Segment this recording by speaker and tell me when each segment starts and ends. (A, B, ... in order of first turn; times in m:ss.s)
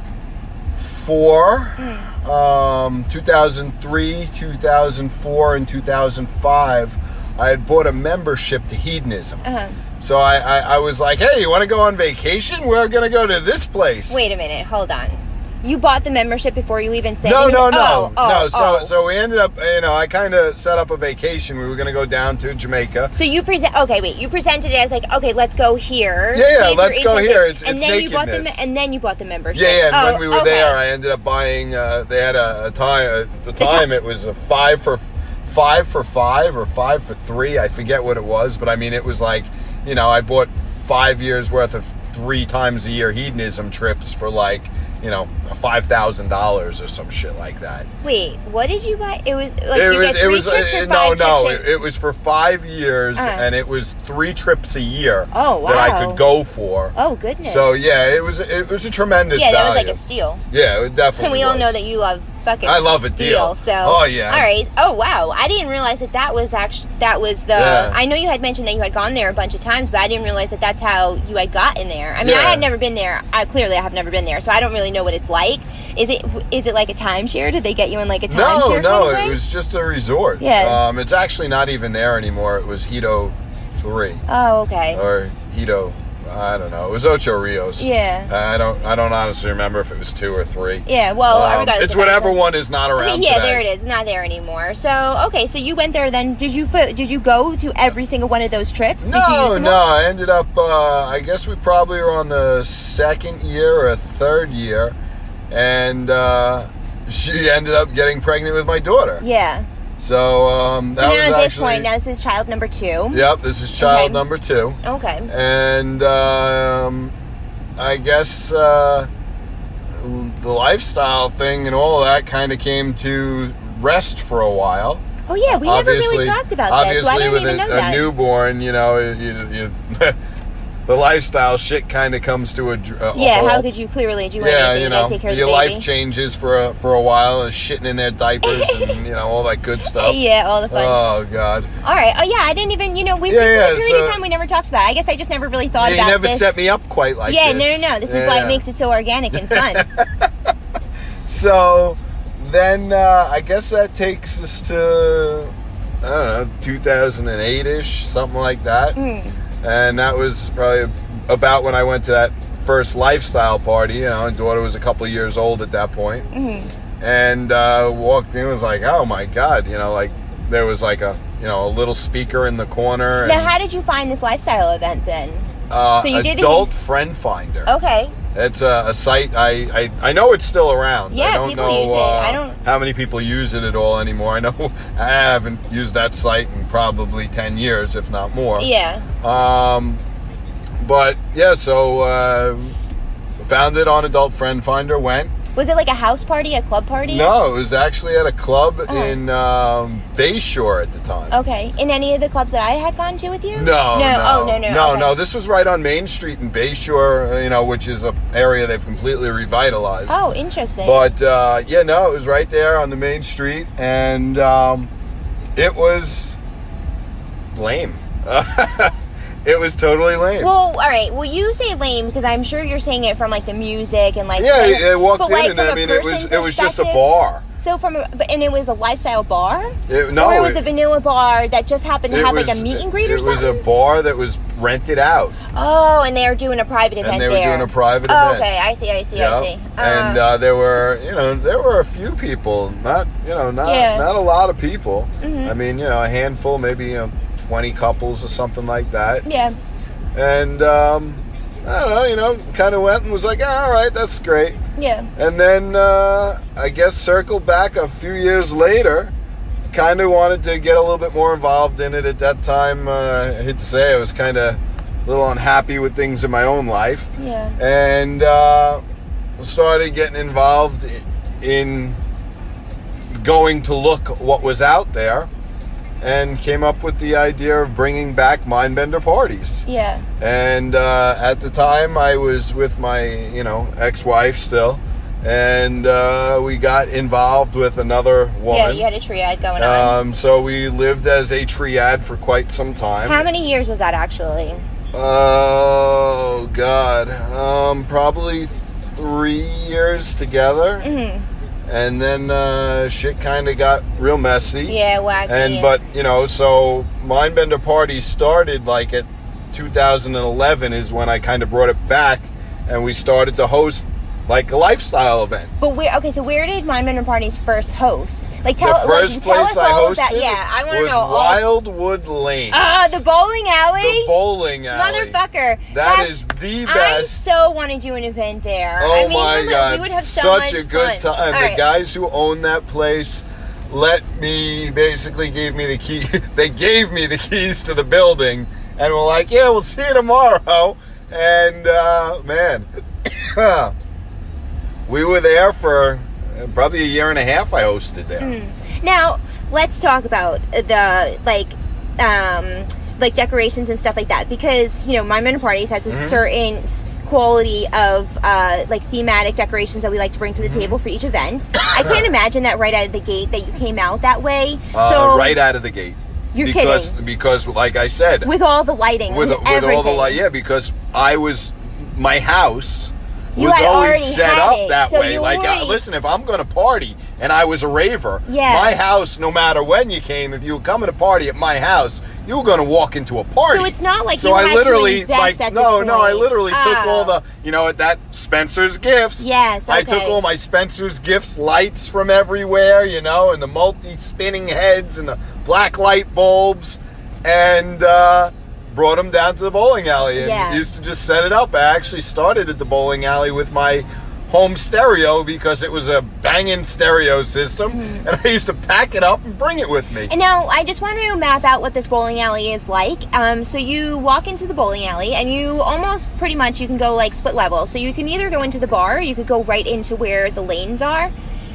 0:00.8-0:09.4 A
0:01.8-0:02.1 B
0:09.4-0:09.8 B
0:10.0-0:14.2 A
0:14.1-0:18.9 B
0:17.2-0:23.1 A
0:23.1-0:30.8 B
0:26.3-0:28.7 A
0:29.5-0:47.9 A
0:33.6-0:33.9 B
0:48.0-0:51.6 B
0:49.7-1:01.8 A
0:53.2-0:53.5 B
0:55.3-0:56.2 B
0:57.0-0:57.8 B
0:59.3-1:00.4 B
1:01.2-1:19.4 B
1:02.6-1:04.5 A
1:07.5-1:08.0 A
1:12.2-1:12.7 A
1:18.3-1:24.2 A
1:20.4-1:20.8 B
1:24.3-1:25.0 B
1:24.9-1:33.6 A
1:27.8-1:28.3 B
1:30.9-1:32.4 B
1:33.0-1:39.8 B
1:39.0-1:45.0 A
1:45.5-1:49.2 A
1:49.2-1:49.7 B
1:50.0-1:51.9 A
1:51.0-1:53.3 B
1:53.1-1:57.1 A
1:53.8-1:54.2 B
1:54.8-1:55.3 B
1:57.8-1:59.1 A
1:59.9-2:10.2 A
2:05.3-2:08.1 B
2:10.9-2:13.7 A
2:13.2-2:15.9 B
2:14.4-2:20.2 A
2:18.4-2:19.0 B
2:19.8-2:21.0 B
2:20.7-2:21.7 A
2:21.8-2:26.6 B
2:23.3-2:24.2 A
2:25.8-2:28.6 A
2:27.3-2:29.9 B
2:29.3-2:30.5 A
2:31.3-2:39.0 A
2:39.0-2:39.4 B
2:39.6-2:46.3 A
2:46.3-2:46.7 B
2:47.0-2:53.5 A
2:53.2-2:56.7 B
2:55.7-2:57.7 A
2:57.7-2:58.1 B
2:58.3-3:08.7 A
3:01.1-3:02.6 B
3:08.6-3:09.1 B
3:09.2-3:10.0 A
3:10.8-3:12.8 A
3:13.4-3:15.3 A
3:15.6-3:17.3 B
3:17.1-3:21.3 A
3:18.9-3:19.2 B
3:21.3-3:25.2 B
3:23.5-3:30.2 A
3:30.1-3:31.0 B
3:30.8-3:34.9 A
3:35.6-3:36.4 A
3:37.5-3:40.5 A
3:40.4-3:47.0 B
3:44.4-3:47.4 A
3:47.6-3:53.6 B
3:49.9-3:50.6 A
3:52.1-3:55.4 A
3:55.5-4:00.2 B
3:57.0-3:58.5 A
3:59.1-4:09.2 A
4:03.6-4:04.1 B
4:05.2-4:05.5 B
4:09.2-4:09.6 B
4:10.2-4:14.6 A
4:14.8-4:15.1 B
4:15.2-4:19.1 A
4:19.7-4:28.8 A
4:27.2-4:27.6 B
4:29.4-4:32.0 A
4:33.1-4:35.3 A
4:36.0-4:39.6 A
4:39.7-4:40.1 B
4:40.2-4:48.9 A
4:48.5-4:50.0 B
4:49.6-4:53.2 A
4:53.0-4:54.6 B
4:54.9-5:00.9 A
5:00.8-5:01.3 B
5:01.7-5:15.5 A
5:04.7-5:05.7 B
5:15.6-5:21.4 B
5:18.6-5:23.0 A
5:22.5-5:24.1 B
5:23.8-5:25.2 A
5:24.7-5:31.6 B
5:25.7-5:27.3 A
5:28.8-5:43.7 A
5:44.9-5:48.4 A
5:48.2-6:05.4 B
5:55.9-5:56.2 A
6:00.4-6:00.8 A
6:01.7-6:02.1 A
6:04.7-6:08.3 A
6:06.3-6:06.9 B
6:08.2-6:10.2 B
6:09.1-6:50.1 A
6:13.4-6:15.8 B
6:18.3-6:18.8 B
6:23.5-6:27.2 B
6:29.2-6:30.2 B
6:40.2-6:40.6 B
6:47.7-6:48.0 B
6:50.1-7:01.1 B